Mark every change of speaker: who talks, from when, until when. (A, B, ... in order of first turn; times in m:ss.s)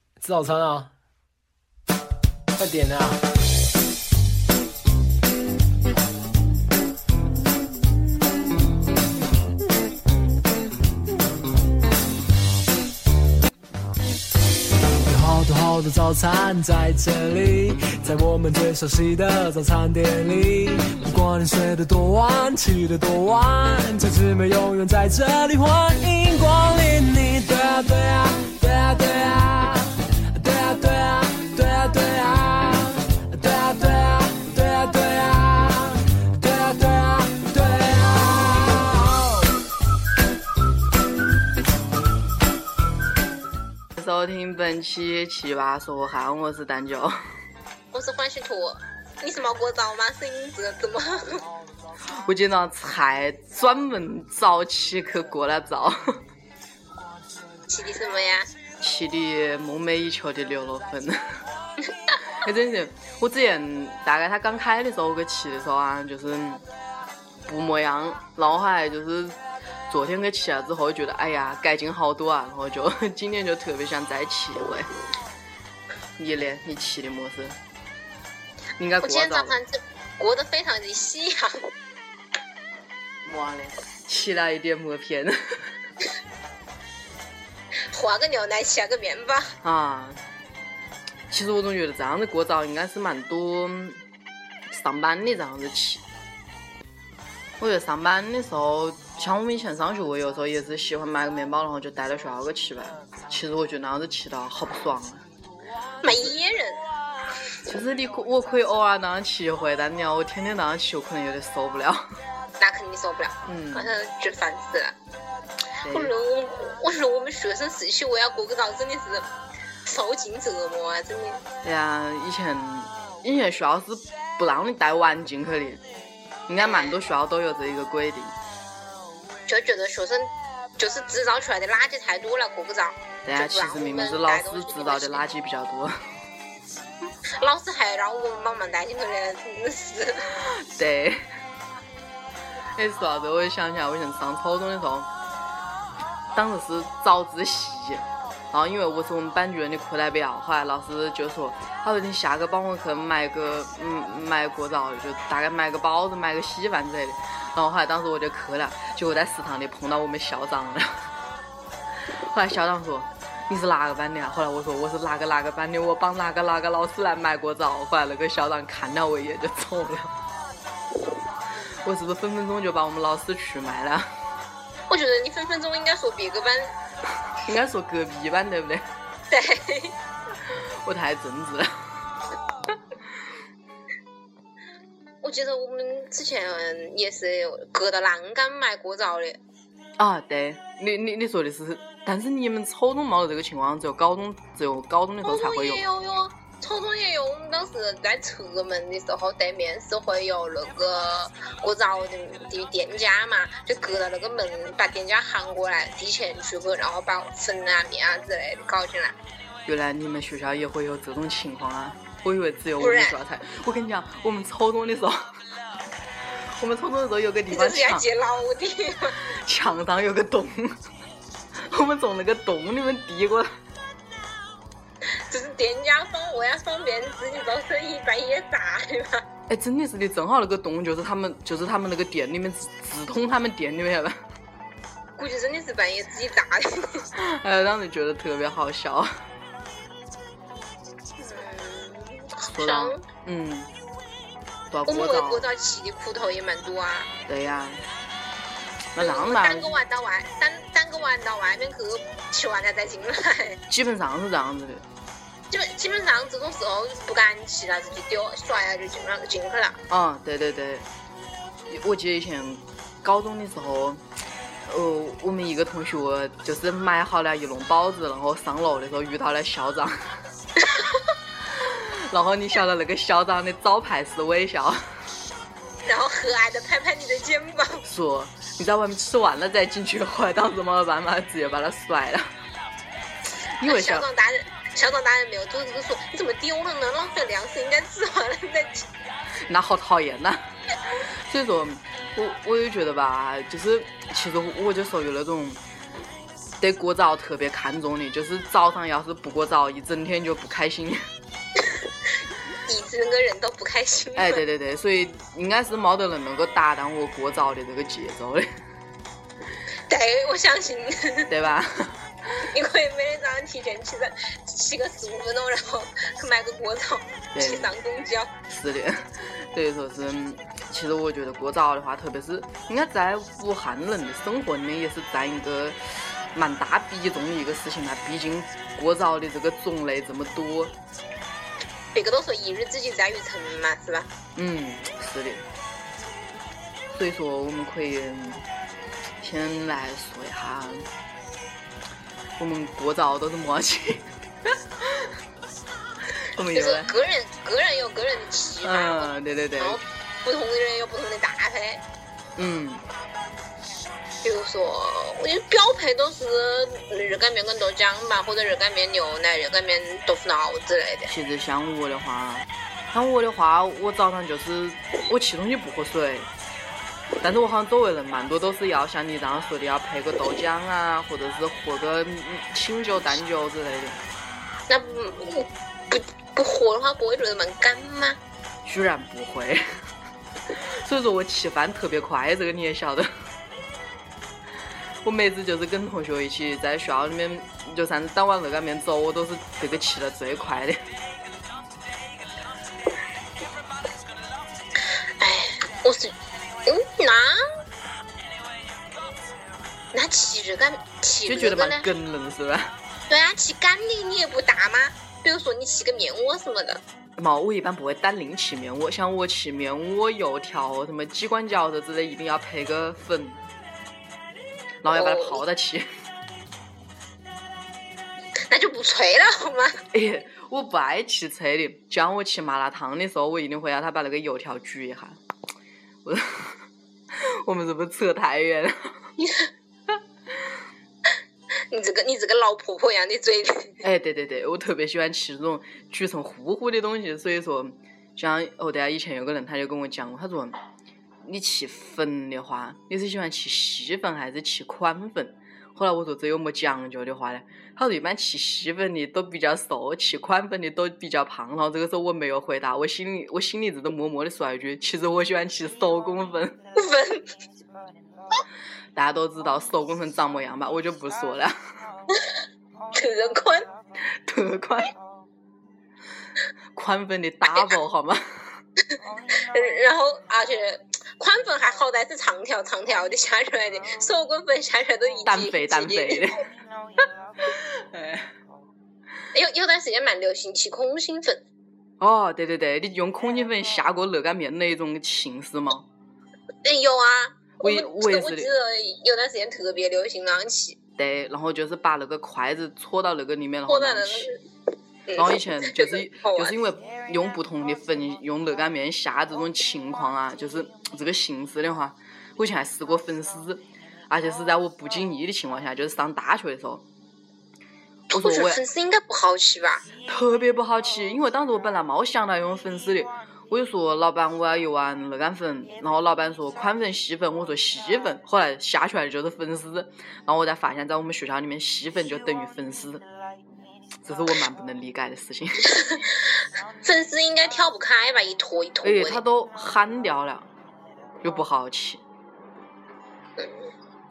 0:00.2-0:00.9 A
0:02.6-0:03.2 A
0:15.0-0:39.5 A
0:44.0-0:47.2 B
0:47.9-0:51.4 C
0:52.1-0:56.2 B
0:57.7-0:58.5 C
0:58.8-1:01.4 B
1:02.4-1:06.6 B
1:07.5-1:09.4 B
1:09.9-1:14.9 B
1:16.2-1:17.6 B
1:18.8-1:19.6 B
1:19.0-1:21.7 C
1:23.2-1:25.7 B
1:27.9-1:29.5 C
1:29.6-1:30.2 B
1:31.3-1:34.0 B
1:34.7-1:36.0 B
1:37.6-1:45.2 B
1:46.0-1:46.8 C
1:46.0-1:46.4 B
1:47.7-1:52.1 B
1:52.6-1:55.0 C
1:53.5-1:54.0 B
1:55.8-1:56.1 B
1:55.9-1:59.3 C
1:59.9-2:01.4 C
2:01.6-2:05.8 B
2:06.5-2:08.4 B
2:06.6-2:07.0 C
2:09.5-2:15.2 C
2:13.2-2:16.0 B
2:17.4-2:20.3 C
2:20.4-2:21.2 B
2:22.8-2:25.1 B
2:26.3-2:41.1 B
2:42.1-2:50.1 B
2:51.8-2:54.1 B
2:54.9-2:56.7 C
2:57.4-2:58.8 B
2:59.3-2:59.9 C
3:00.5-3:01.9 B
3:05.2-3:09.4 C
3:10.0-3:15.8 B
3:15.2-3:29.2 C
3:29.7-3:35.4 B
3:32.8-3:33.2 C
3:36.6-3:38.0 B
3:37.5-3:39.2 C
3:39.2-3:40.8 B
3:41.6-3:43.5 B
3:45.3-3:49.2 C
3:49.5-3:54.2 B
3:55.2-3:57.1 C
3:57.1-3:59.1 B
4:01.2-4:03.0 C
4:02.5-4:03.7 B
4:04.7-4:05.5 B
4:04.9-4:07.1 C
4:07.3-4:07.8 B
4:08.9-4:09.7 B
4:09.0-4:13.6 C
4:13.7-4:14.8 B
4:15.5-4:19.8 C
4:19.9-4:20.9 B
4:21.7-4:24.0 B
4:24.7-4:30.2 B
4:30.6-4:31.0 C
4:31.5-4:34.9 B
4:35.9-4:37.8 C
4:37.8-4:42.3 B
4:43.6-4:44.1 B
4:43.6-4:48.9 C
4:49.5-4:50.4 B
4:51.2-4:55.6 B
4:56.6-5:01.0 B
5:02.7-5:04.4 C
5:04.2-5:08.5 B
5:09.9-5:11.3 C
5:11.3-5:12.1 B
5:12.5-5:18.3 C
5:17.4-5:17.7 B
5:18.5-5:25.8 B
5:26.3-5:30.8 B
5:31.9-5:34.1 C
5:34.4-5:35.4 B
5:36.9-5:38.4 B
5:39.2-5:40.9 B
5:42.4-5:45.1 B
5:46.1-5:47.0 B
5:46.5-5:51.8 C
5:48.6-5:49.8 B
5:52.4-5:52.8 B
5:54.2-6:01.1 C
6:01.1-6:06.3 B
6:07.2-6:14.0 B
6:14.7-6:18.2 C
6:18.6-6:19.6 B
6:20.5-6:23.1 B
6:25.0-6:30.8 B
6:35.2-6:36.2 C
6:36.7-6:37.4 C
6:39.9-6:41.9 C
6:41.3-6:42.8 B
6:43.1-6:46.8 C
6:47.2-6:53.4 B
6:54.8-6:55.9 B
6:54.9-6:55.4 C
6:58.5-6:59.8 C
6:59.9-7:05.2 B
7:06.0-7:09.0 B
7:09.2-7:09.5 C
7:10.3-7:10.6 B
7:11.7-7:13.7 C
7:13.8-7:20.6 B
7:21.2-7:36.6 B
7:36.8-7:37.3 C
7:39.0-7:41.5 B
7:42.9-7:43.7 C
7:44.1-7:44.9 B
7:46.8-7:48.2 B
7:49.4-7:56.3 C
7:55.3-7:56.4 B
7:57.4-7:58.3 B
7:59.3-8:01.4 C
8:02.0-8:05.9 B
8:06.6-8:10.8 C
8:07.6-8:08.5 B
8:11.0-8:14.3 B
8:13.7-8:14.4 C
8:15.1-8:16.5 C
8:15.2-8:26.8 B
8:28.1-8:28.6 B
8:28.1-8:29.8 C
8:30.0-8:43.0 B
8:44.0-8:45.8 B
8:45.7-8:46.0 C
8:46.8-8:49.2 C
8:48.8-8:50.5 B
8:51.2-8:52.0 B